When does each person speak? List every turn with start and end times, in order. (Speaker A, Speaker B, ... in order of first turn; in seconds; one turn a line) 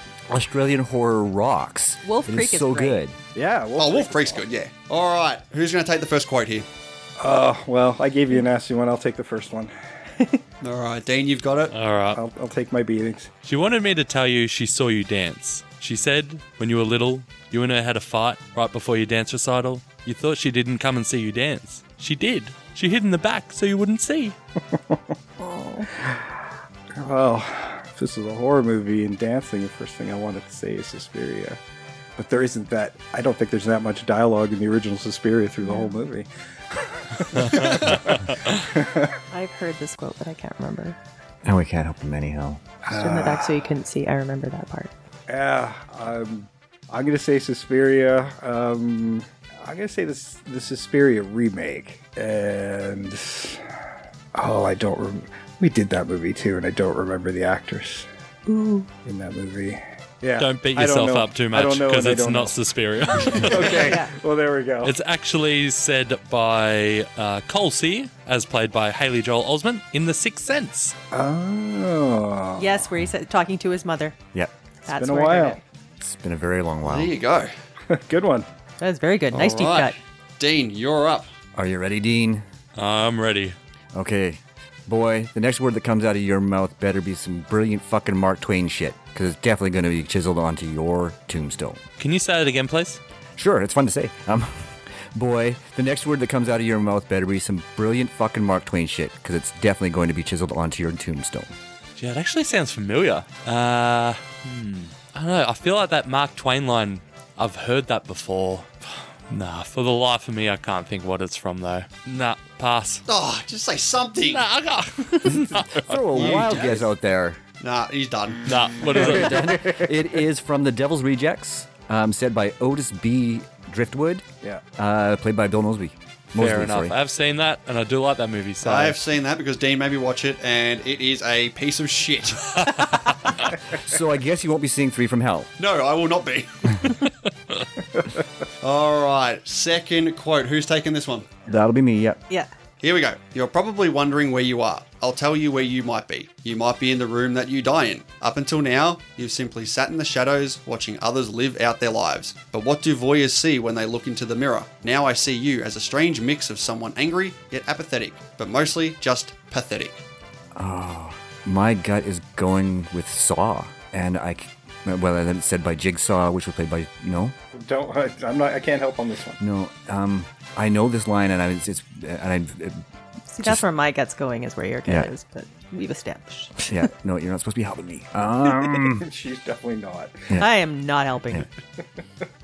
Speaker A: 0.3-3.2
Speaker B: 2.0-3.0
Speaker C: 3.3-4.4
Speaker D: 3.8-6.7
Speaker C: 7.2-10.3
Speaker D: 10.6-11.7
Speaker E: 11.7-12.2
Speaker C: 12.1-13.3
Speaker E: 13.4-24.4
Speaker C: 24.7-25.1
Speaker B: 25.4-25.9
Speaker C: 25.8-26.3
Speaker C: 27.0-31.6
Speaker C: 32.2-39.1
Speaker B: 35.6-35.9
Speaker E: 37.4-38.0
Speaker B: 39.3-41.0
Speaker A: 41.4-42.6
Speaker C: 42.8-43.6
Speaker B: 42.9-44.9
Speaker C: 45.3-53.6
Speaker C: 54.3-58.1
Speaker B: 58.5-58.9
Speaker C: 59.0-62.6
Speaker E: 60.4-63.9
Speaker C: 63.2-64.9
Speaker B: 63.8-64.1
Speaker E: 64.8-70.9
Speaker C: 71.1-72.8
Speaker B: 72.6-74.1
Speaker B: 74.9-75.6
Speaker C: 74.9-75.6
Speaker A: 76.0-77.1
Speaker D: 76.8-77.5
Speaker C: 77.9-78.5
Speaker B: 78.8-80.0
Speaker D: 79.3-81.3
Speaker A: 81.5-82.4
Speaker E: 82.8-83.5
Speaker A: 83.9-91.8
Speaker E: 92.0-93.0
Speaker A: 93.3-101.5
Speaker E: 102.0-108.7
Speaker E: 109.3-113.0
Speaker D: 113.1-114.4
Speaker E: 114.3-116.7
Speaker A: 115.3-117.4
Speaker D: 116.1-116.8
Speaker D: 117.6-118.5
Speaker E: 118.5-119.6
Speaker A: 118.9-126.9
Speaker C: 119.0-119.8
Speaker E: 126.3-129.0
Speaker D: 128.6-133.0
Speaker A: 133.8-135.5
Speaker D: 135.6-136.9
Speaker D: 138.6-141.3
Speaker A: 141.5-142.2
Speaker D: 142.8-160.0
Speaker A: 160.5-167.3
Speaker C: 167.5-169.4
Speaker A: 169.4-172.8
Speaker B: 173.3-176.8
Speaker A: 176.7-179.1
Speaker C: 178.5-180.4
Speaker B: 180.4-181.5